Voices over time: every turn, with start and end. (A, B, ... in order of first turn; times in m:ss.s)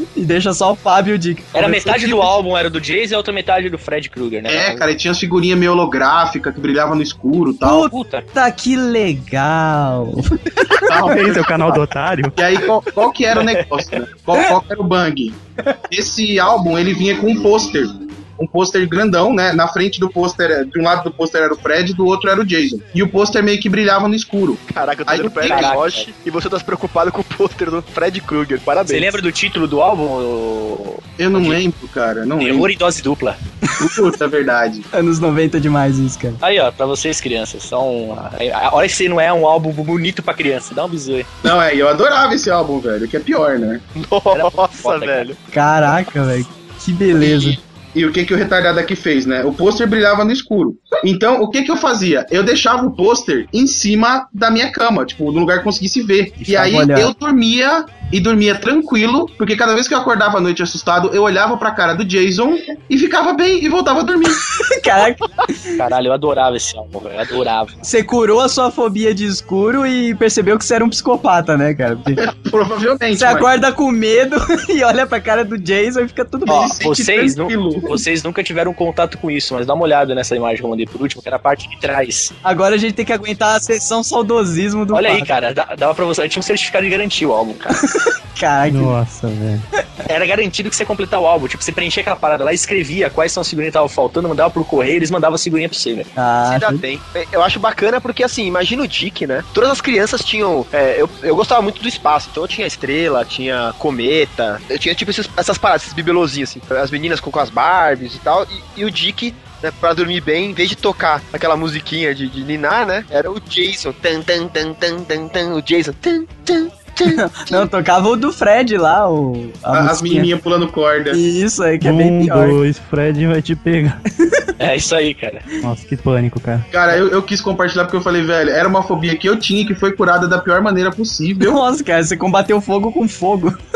0:00.2-0:02.3 A
0:01.5-0:04.9 B
0:04.5-0:07.9 C
0:07.6-0:10.4 A
0:07.9-0:08.3 B
0:10.8-0:11.8 C
0:11.0-0:12.4 D
0:12.4-0:25.7 C
0:24.7-0:29.2 E
0:25.4-0:26.1 B
0:28.9-0:31.6 B
0:31.2-0:32.7 C
0:32.4-0:33.4 B
0:33.8-0:34.8 C
0:34.9-0:36.4 A
0:36.4-0:41.3 B
0:41.4-0:43.8 C
0:44.0-0:45.4 E
0:44.3-0:45.3 B
0:45.5-0:47.6 A
0:47.2-1:04.5 C
0:56.4-0:57.1 A
1:04.5-1:05.8 A
1:05.8-1:07.8 B
1:07.8-1:12.2 A
1:12.2-1:13.5 C
1:13.1-1:16.8 A
1:16.5-1:18.0 C
1:16.5-1:22.3 B
1:22.4-1:25.3 A
1:24.9-1:27.8 B
1:27.9-1:29.0 A
1:28.7-1:29.6 D
1:30.1-1:36.1 B
1:36.2-1:36.8 A
1:36.4-1:57.7 E
1:57.0-2:00.3 A
1:59.7-2:01.2 C
2:01.1-2:02.6 A
2:01.8-2:04.0 D
2:04.2-2:04.5 A
2:04.6-2:05.4 B
2:05.6-2:06.7 D
2:06.7-2:11.6 C
2:11.4-2:13.6 A